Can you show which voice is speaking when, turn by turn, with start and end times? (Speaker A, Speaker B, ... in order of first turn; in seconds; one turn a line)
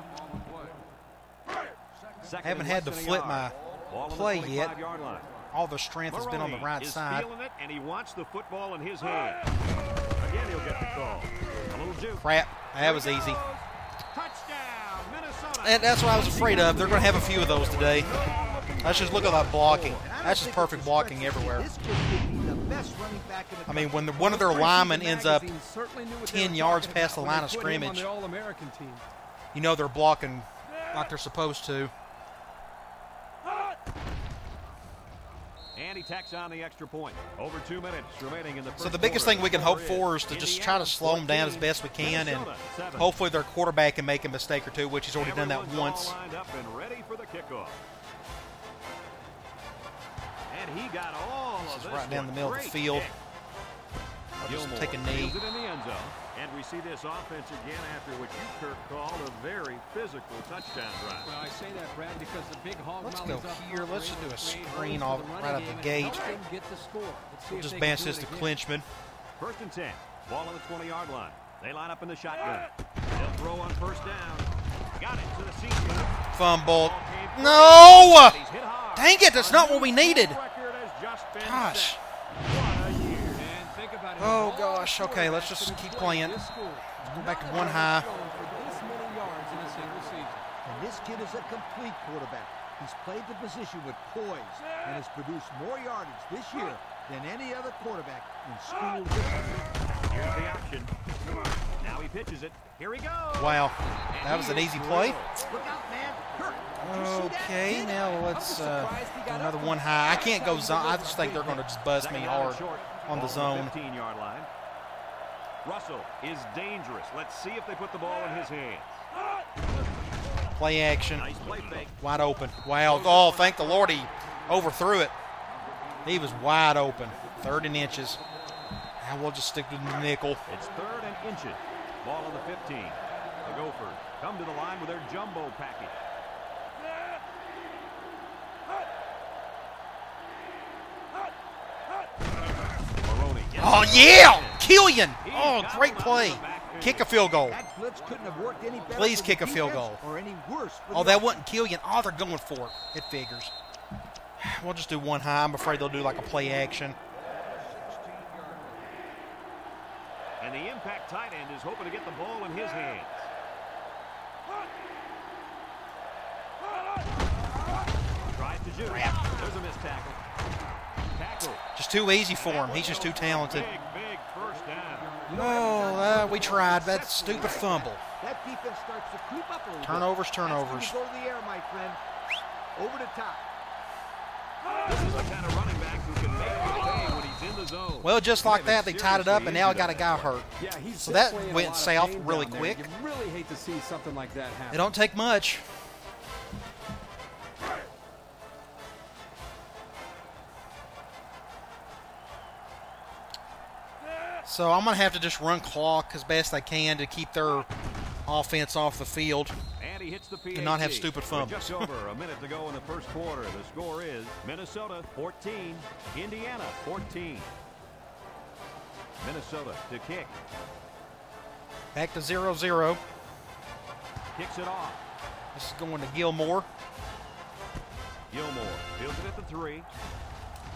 Speaker A: 2.2-5.3
Speaker B: 2.4-3.5
Speaker B: 4.1-4.7
Speaker B: 5.5-7.3
Speaker A: 6.1-9.5
Speaker A: 10.2-20.0
Speaker B: 12.2-13.4
Speaker B: 15.6-18.1
Speaker B: 18.8-21.7
Speaker C: 19.1-24.2
Speaker B: 23.7-25.5
Speaker D: 24.2-29.0
Speaker B: 26.2-28.1
Speaker B: 29.5-31.9
Speaker A: 35.7-43.1
Speaker B: 38.8-46.1
Speaker A: 45.1-47.8
Speaker A: 50.5-53.1
Speaker B: 51.6-53.1
Speaker B: 54.4-55.4
Speaker A: 54.5-61.3
Speaker D: 61.2-68.5
Speaker B: 63.0-66.2
Speaker B: 67.5-68.8
Speaker A: 69.4-83.5
Speaker B: 76.3-78.4
Speaker B: 78.9-80.4
Speaker B: 81.4-82.0
Speaker D: 83.3-90.4
Speaker B: 84.2-86.4
Speaker B: 87.0-88.1
Speaker C: 90.6-99.7
Speaker A: 100.1-100.9
Speaker A: 101.8-105.4
Speaker B: 103.4-105.2
Speaker C: 105.3-107.8
Speaker B: 106.8-113.7
Speaker D: 107.5-111.6
Speaker A: 112.0-114.5
Speaker A: 115.6-119.0
Speaker B: 120.6-121.3
Speaker A: 121.1-121.9
Speaker B: 121.9-125.1
Speaker D: 123.1-123.8
Speaker B: 126.0-128.2
Speaker B: 129.0-130.4
Speaker A: 130.5-136.0
Speaker A: 143.0-144.6
Speaker B: 143.6-147.6
Speaker A: 145.2-147.1
Speaker C: 147.4-151.4
Speaker B: 148.9-150.0
Speaker B: 150.9-153.5
Speaker B: 154.4-156.9
Speaker A: 160.4-163.3
Speaker A: 168.2-170.2
Speaker B: 168.9-169.3
Speaker A: 171.1-171.6
Speaker B: 171.8-173.7
Speaker A: 172.4-175.2
Speaker C: 175.2-182.0
Speaker B: 175.3-178.0
Speaker B: 179.8-180.9
Speaker C: 182.7-183.4
Speaker A: 184.8-190.3
Speaker B: 188.0-192.9
Speaker D: 190.6-194.9
Speaker B: 194.7-195.6
Speaker B: 204.4-207.7
Speaker B: 208.2-209.6
Speaker A: 209.8-217.5
Speaker B: 210.5-211.9
Speaker A: 219.2-220.3
Speaker B: 221.9-223.0
Speaker A: 224.3-225.0
Speaker B: 225.5-226.7
Speaker A: 228.3-229.9